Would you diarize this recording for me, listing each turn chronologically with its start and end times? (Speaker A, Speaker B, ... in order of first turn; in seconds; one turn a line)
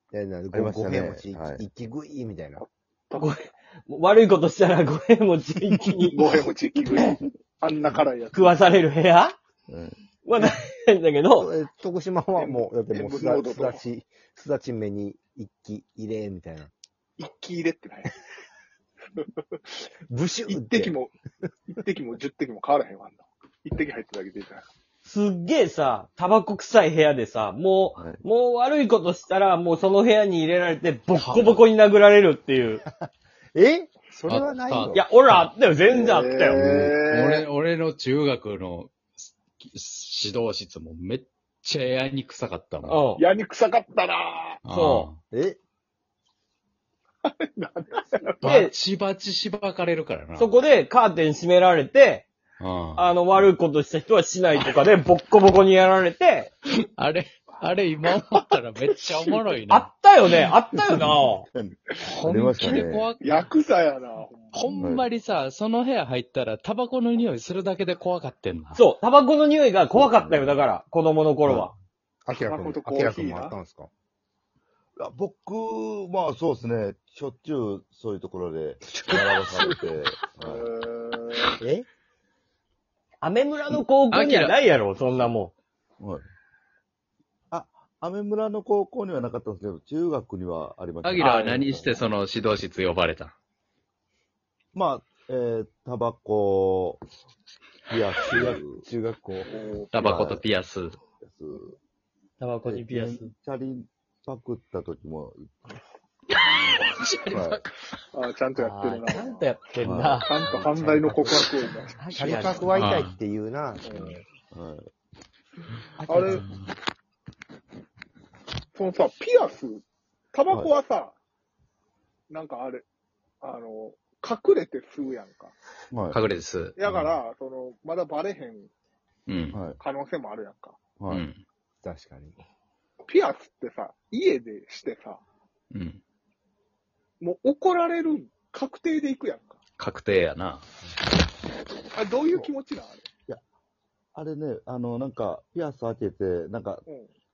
Speaker A: 0.1-2.6
Speaker B: 0.5-1.6
Speaker C: 2.6-3.5
Speaker D: 3.2-6.3
Speaker C: 6.1-8.7
Speaker D: 8.3-9.4
Speaker B: 9.7-10.0
Speaker D: 10.2-11.5
Speaker A: 11.4-16.7
Speaker C: 12.4-13.8
Speaker C: 17.2-18.2
Speaker C: 19.1-19.8
Speaker A: 20.1-21.0
Speaker C: 20.5-21.1
Speaker C: 21.7-24.6
Speaker D: 25.0-32.8
Speaker E: 31.1-31.6
Speaker A: 32.9-35.0
Speaker E: 34.3-35.5
Speaker D: 34.9-36.6
Speaker C: 35.9-37.5
Speaker B: 36.5-37.0
Speaker E: 37.0-43.0
Speaker D: 42.8-43.2
Speaker C: 43.2-44.6
Speaker E: 44.6-45.2
Speaker D: 44.7-45.1
Speaker A: 45.3-45.6
Speaker C: 47.2-48.4
Speaker D: 48.4-48.7
Speaker E: 48.4-50.5
Speaker D: 50.4-52.3
Speaker E: 52.6-53.1
Speaker D: 53.0-56.5
Speaker E: 57.0-59.9
Speaker C: 58.1-59.4
Speaker D: 59.7-61.5
Speaker B: 60.9-63.1
Speaker C: 62.0-64.8
Speaker E: 62.2-63.4
Speaker E: 64.5-68.8
Speaker B: 64.8-65.1
Speaker D: 68.7-71.7
Speaker B: 69.9-70.7
Speaker B: 71.5-71.7
Speaker A: 72.3-73.9
Speaker C: 72.4-73.6
Speaker B: 75.0-80.7
Speaker C: 79.2-79.6
Speaker C: 80.4-81.6
Speaker A: 81.6-81.9
Speaker D: 83.2-85.5
Speaker E: 84.1-84.6
Speaker B: 87.5-92.0
Speaker E: 91.0-93.3
Speaker D: 91.2-91.5
Speaker B: 94.8-97.0
Speaker B: 97.9-98.8
Speaker A: 98.3-99.5
Speaker C: 99.5-99.9
Speaker E: 99.9-101.0
Speaker B: 99.9-100.4
Speaker B: 101.2-101.8
Speaker D: 102.4-103.3
Speaker B: 102.7-105.7
Speaker E: 106.4-107.6
Speaker B: 107.3-107.6
Speaker C: 108.1-109.5
Speaker D: 108.5-110.9
Speaker B: 109.8-110.5
Speaker C: 110.2-112.0
Speaker A: 110.9-111.4
Speaker D: 112.0-112.7
Speaker A: 112.2-114.2
Speaker E: 112.3-113.2
Speaker C: 113.8-114.2
Speaker B: 114.5-114.9
Speaker A: 116.0-116.4
Speaker C: 116.0-116.5
Speaker E: 116.2-116.7
Speaker C: 118.8-121.2
Speaker C: 122.3-122.8
Speaker C: 123.4-125.5
Speaker B: 125.9-126.2
Speaker E: 126.1-127.1
Speaker C: 126.8-128.7
Speaker E: 129.3-129.6
Speaker B: 129.5-129.8
Speaker C: 129.8-130.8
Speaker B: 131.0-131.3
Speaker E: 131.1-131.4
Speaker A: 131.8-132.4
Speaker C: 133.1-135.2
Speaker E: 135.7-136.0
Speaker C: 137.2-139.6
Speaker E: 139.8-140.7
Speaker C: 141.9-143.1
Speaker B: 144.2-146.8
Speaker C: 146.9-147.1